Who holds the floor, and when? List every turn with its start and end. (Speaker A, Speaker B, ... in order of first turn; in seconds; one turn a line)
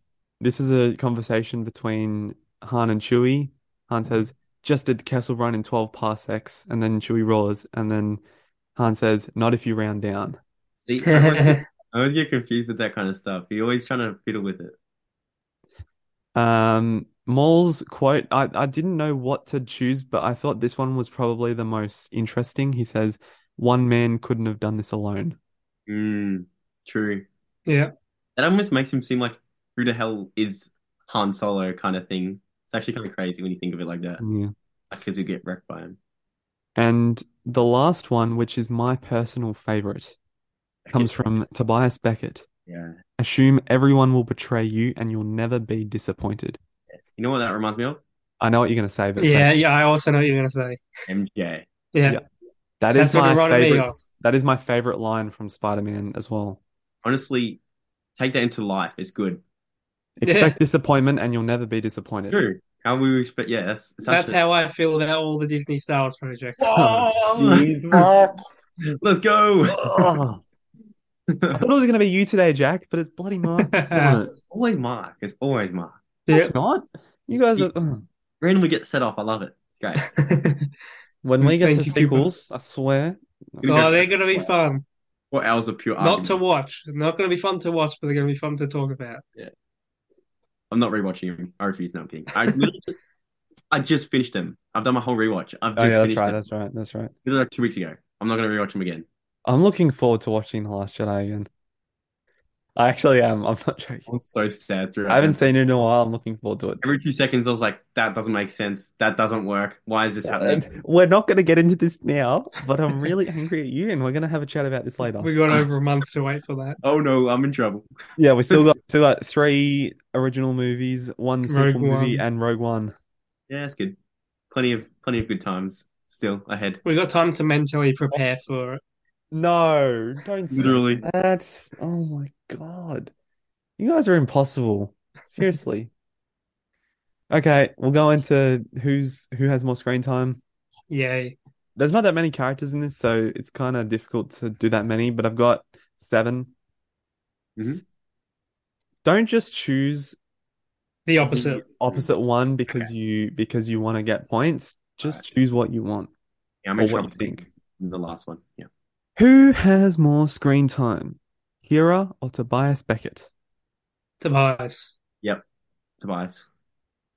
Speaker A: 0.4-8.2
Speaker A: 8.8-10.4
Speaker B: 10.8-14.7
Speaker C: 11.0-11.6
Speaker A: 16.4-25.4
Speaker B: 25.9-27.2
Speaker C: 27.7-27.9
Speaker B: 28.4-34.2
Speaker A: 34.2-34.5
Speaker B: 34.9-36.0
Speaker A: 36.8-40.2
Speaker B: 40.9-41.2
Speaker A: 40.9-42.5
Speaker B: 42.7-43.0
Speaker A: 43.2-46.6
Speaker B: 47.1-48.0
Speaker A: 48.4-49.5
Speaker C: 49.2-50.8
Speaker B: 51.1-51.6
Speaker C: 51.9-52.2
Speaker A: 52.8-56.6
Speaker C: 52.9-54.0
Speaker B: 57.0-57.6
Speaker B: 58.2-59.4
Speaker A: 60.2-62.4
Speaker C: 60.2-60.5
Speaker B: 62.3-64.4
Speaker C: 64.0-66.8
Speaker B: 66.6-68.1
Speaker A: 66.7-68.3
Speaker B: 69.0-70.2
Speaker A: 69.7-70.4
Speaker B: 71.3-71.6
Speaker A: 71.5-74.3
Speaker C: 73.7-74.2
Speaker B: 74.5-76.0
Speaker C: 76.3-76.5
Speaker A: 76.3-78.0
Speaker B: 78.4-80.1
Speaker C: 80.0-80.7
Speaker A: 81.2-83.9
Speaker C: 81.4-82.3
Speaker B: 83.6-84.5
Speaker C: 83.7-84.8
Speaker B: 85.3-86.4
Speaker C: 86.0-89.2
Speaker B: 90.7-92.9
Speaker B: 93.7-96.4
Speaker A: 95.8-97.1
Speaker B: 97.2-99.0
Speaker A: 99.5-101.5
Speaker A: 102.8-104.1
Speaker B: 104.1-105.4
Speaker A: 105.1-106.8
Speaker B: 106.8-110.7
Speaker A: 110.2-115.3
Speaker C: 115.2-116.8
Speaker B: 116.8-117.8
Speaker A: 118.2-122.9
Speaker C: 121.5-122.2
Speaker B: 123.5-124.0
Speaker B: 124.5-126.8
Speaker C: 126.8-128.8
Speaker A: 129.3-133.1
Speaker B: 130.5-131.0
Speaker A: 133.8-135.9
Speaker A: 137.3-140.4
Speaker C: 140.9-141.3
Speaker A: 141.8-146.5
Speaker B: 147.6-147.8
Speaker A: 149.0-150.2
Speaker C: 151.1-151.6
Speaker A: 151.3-156.1
Speaker B: 151.7-152.1
Speaker B: 156.6-158.7
Speaker A: 156.8-157.4
Speaker A: 159.2-163.3
Speaker C: 164.2-164.9
Speaker B: 166.0-166.4